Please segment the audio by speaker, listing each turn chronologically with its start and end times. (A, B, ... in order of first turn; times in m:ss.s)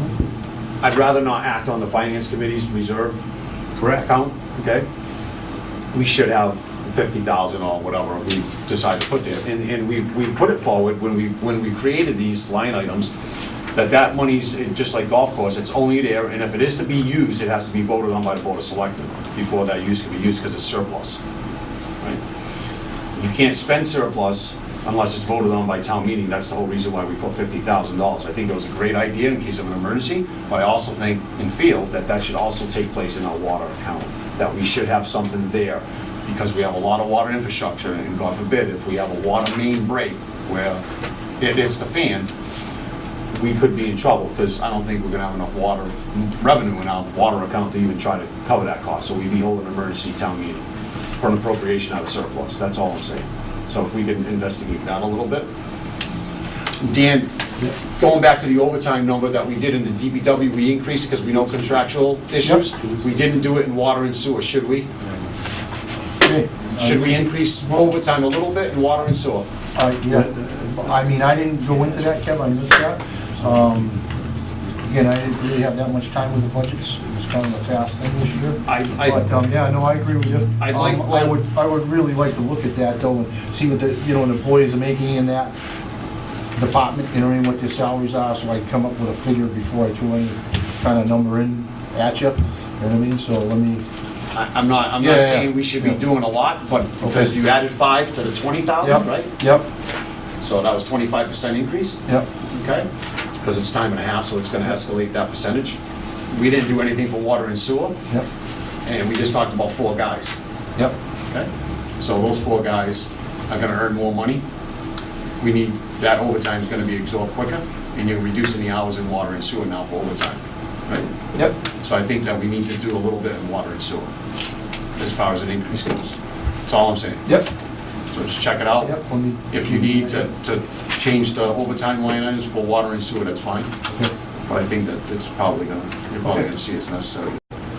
0:00.8-0:03.2 A
0:03.8-0:04.1 B
0:04.0-0:04.9 A
0:05.9-0:13.1 A
0:13.7-0:21.2 A
0:23.2-0:40.8 A
0:41.4-0:42.3 A
0:43.3-0:50.6 A
0:51.2-0:55.5 A
0:56.8-1:04.9 A
1:06.2-1:07.8 C
1:06.8-1:09.5 A
1:09.8-1:14.0 C
1:10.1-1:12.3 B
1:13.4-1:13.8 B
1:14.8-1:25.5 C
1:18.7-1:19.2 A
1:20.6-1:21.4 A
1:26.6-1:33.8 C
1:34.3-1:39.4 A
1:35.0-1:36.0 C
1:37.0-1:37.3 C
1:38.8-1:39.7 C
1:40.4-1:42.9 A
1:43.4-1:45.8 A
1:46.3-1:48.0 A
1:48.8-1:50.4 A
1:52.0-1:54.4 A
1:55.4-2:01.1 A
2:01.8-2:04.1 A
2:05.0-2:07.3 A
2:08.1-2:09.0 A
2:08.8-2:10.3 C
2:09.5-2:13.7 A
2:14.5-2:17.4 A